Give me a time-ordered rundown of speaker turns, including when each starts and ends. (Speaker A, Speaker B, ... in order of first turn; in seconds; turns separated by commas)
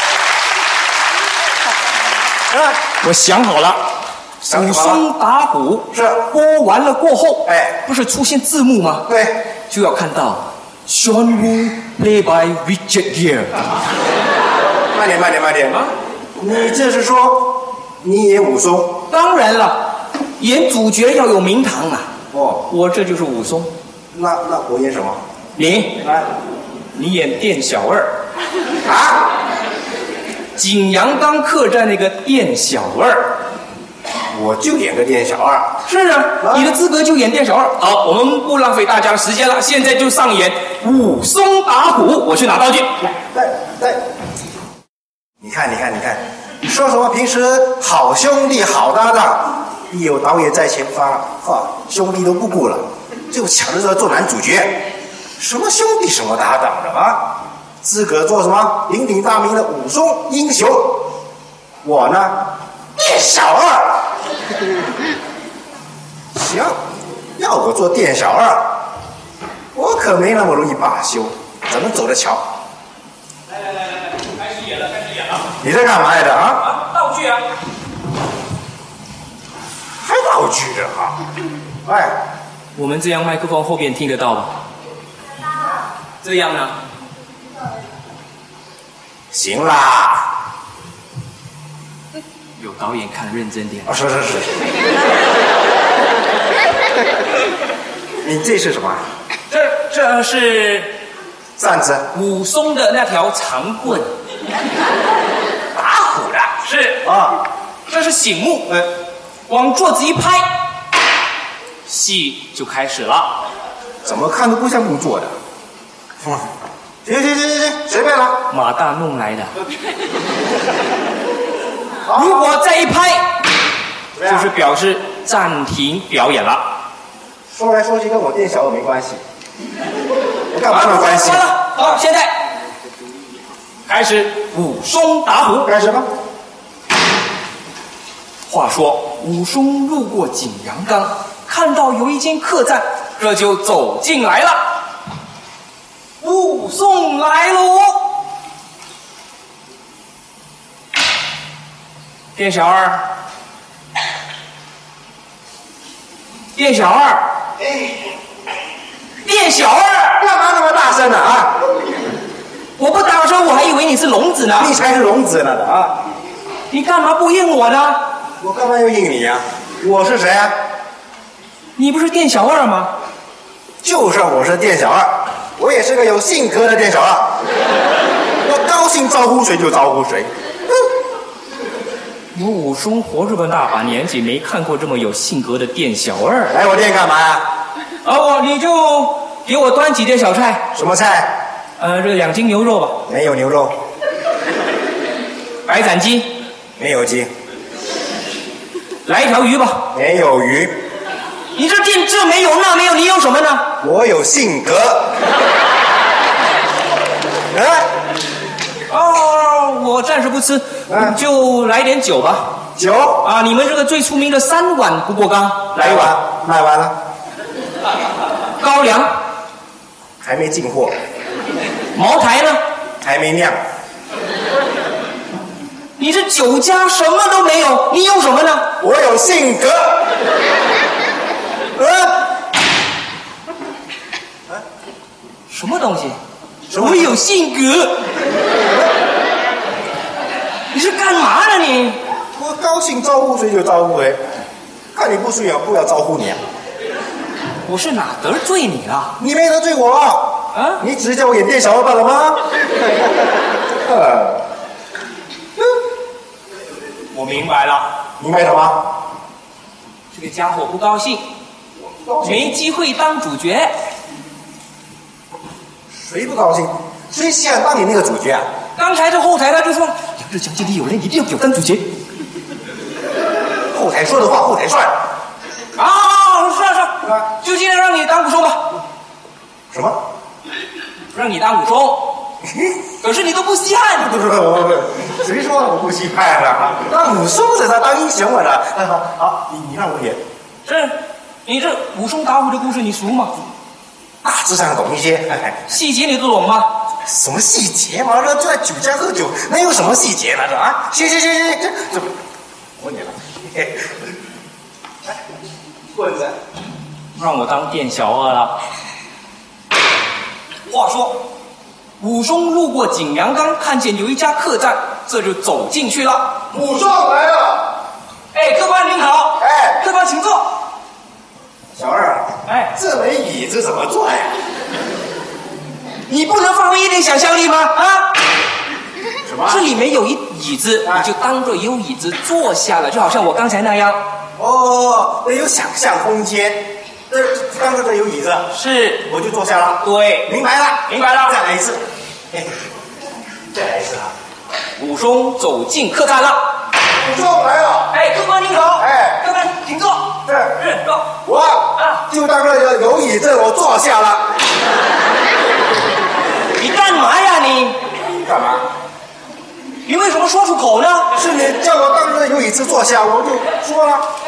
Speaker A: 2.8-3.8, Speaker B: 4.4-5.0, Speaker A: 4.5-9.1, Speaker B: 5.9-6.2, Speaker B: 7.5-7.8, Speaker B: 9.1-9.4, Speaker A: 9.7-13.7, Speaker B: 14.9-19.0, Speaker A: 19.1-22.1, Speaker B: 22.3-22.6, Speaker A: 22.7-23.7, Speaker B: 24.1-25.2, Speaker A: 25.6-26.0, Speaker B: 26.0-26.3, Speaker A: 26.9-28.1, Speaker B: 28.9-29.3, Speaker A: 30.6-33.3, Speaker B: 34.3-35.7, Speaker A: 35.9-43.0, Speaker B: 36.4-36.8, Speaker B: 43.2-44.0, Speaker B: 45.4-54.8, Speaker B: 55.4-57.2, Speaker B: 57.8-61.0, Speaker B: 61.8-62.4, Speaker B: 63.0-64.1, Speaker B: 66.3-66.8, Speaker B: 67.4-68.6, Speaker B: 69.7-72.5, Speaker A: 73.9-75.4, Speaker B: 75.6-76.7, Speaker A: 76.6-77.5, Speaker B: 80.0-81.2, Speaker B: 81.8-82.1, Speaker A: 82.7-84.6, Speaker A: 86.2-86.8, Speaker B: 89.3-90.3, Speaker A: 92.6-94.0, Speaker B: 93.9-94.6, Speaker B: 98.2-99.0, Speaker A: 99.5-100.9, Speaker B: 101.6-102.1, Speaker A: 102.1-104.1, Speaker B: 105.8-106.5, Speaker A: 106.5-107.1, Speaker B: 107.0-107.4, Speaker A: 107.9-108.8, Speaker A: 109.5-110.5, Speaker A: 111.9-113.4, Speaker B: 114.0-115.3, Speaker B: 117.0-118.4, Speaker A: 118.5-119.5, Speaker B: 122.0-122.6, Speaker A: 122.1-123.3, Speaker B: 124.1-124.5, Speaker A: 124.2-126.6, Speaker B: 127.5-129.2, Speaker B: 130.5-131.7, Speaker A: 130.7-132.3, Speaker A: 133.9-135.7, Speaker B: 135.6-136.1, Speaker A: 138.5-144.6, Speaker A: 146.2-148.1, Speaker A: 152.3-153.0, Speaker A: 156.6-157.3, Speaker A: 159.2-160.2, Speaker B: 160.2-161.6, Speaker A: 162.8-164.7, Speaker B: 164.6-166.0, Speaker A: 166.7-168.0, Speaker B: 168.4-170.6, Speaker A: 171.8-172.9, Speaker B: 173.8-177.4, Speaker B: 178.4-180.3, Speaker A: 182.3-186.6, Speaker B: 186.5-187.4, Speaker A: 188.0-190.7, Speaker B: 190.7-191.3, Speaker A: 191.8-193.0, Speaker B: 193.1-193.8, Speaker A: 195.7-196.3, Speaker B: 196.8-197.3, Speaker A: 199.1-199.9, Speaker B: 199.9-200.7, Speaker A: 201.5-203.7, Speaker B: 203.8-205.1, Speaker B: 207.5-207.9, Speaker A: 208.9-212.6, Speaker B: 210.9-211.2, Speaker B: 212.8-213.2, Speaker A: 213.2-216.2, Speaker B: 215.8-216.9, Speaker A: 218.6-219.2, Speaker B: 220.2-220.9, Speaker A: 221.9-222.6, Speaker B: 223.0-223.6, Speaker A: 226.0-228.7, Speaker B: 228.8-230.1, Speaker B: 231.8-232.2, Speaker A: 235.5-236.2, Speaker B: 236.7-237.2, Speaker A: 236.7-238.0, Speaker A: 240.7-242.0, Speaker B: 242.3-244.2, Speaker B: 244.9-246.4, Speaker A: 247.6-249.1, Speaker B: 249.2-252.4, Speaker A: 250.5-250.8, Speaker B: 253.8-254.4, Speaker A: 257.1-257.9, Speaker B: 258.2-258.8, Speaker A: 260.1-261.2, Speaker B: 261.9-262.6, Speaker A: 262.2-263.7, Speaker B: 265.9-268.5, Speaker A: 268.8-271.9, Speaker B: 273.7-275.0, Speaker A: 275.8-278.6, Speaker B: 279.7-280.0, Speaker A: 281.1-282.1, Speaker A: 283.0-284.1, Speaker B: 284.0-290.2, Speaker A: 290.6-293.4, Speaker B: 294.2-295.7, Speaker A: 295.7-296.7, Speaker B: 297.1-302.1, Speaker B: 302.8-303.9, Speaker B: 306.0-306.3, Speaker A: 307.1-308.6, Speaker A: 310.7-311.2, Speaker A: 312.0-316.4, Speaker B: 316.5-317.7, Speaker A: 318.3-320.5, Speaker B: 319.4-319.8, Speaker B: 321.7-324.4, Speaker A: 322.5-322.7, Speaker A: 326.1-328.1, Speaker B: 329.2-329.6, Speaker A: 329.4-334.0, Speaker B: 334.4-338.5, Speaker A: 338.5-339.1, Speaker B: 339.1-342.5, Speaker A: 339.8-340.3, Speaker A: 340.9-341.4, Speaker B: 343.5-344.1, Speaker A: 344.8-346.4, Speaker B: 346.9-347.9, Speaker A: 347.9-351.1, Speaker B: 348.8-349.2, Speaker B: 350.2-350.5, Speaker B: 351.2-354.2, Speaker A: 351.8-352.0, Speaker A: 356.5-357.8, Speaker B: 358.2-358.6, Speaker A: 359.9-361.1, Speaker B: 361.1-364.1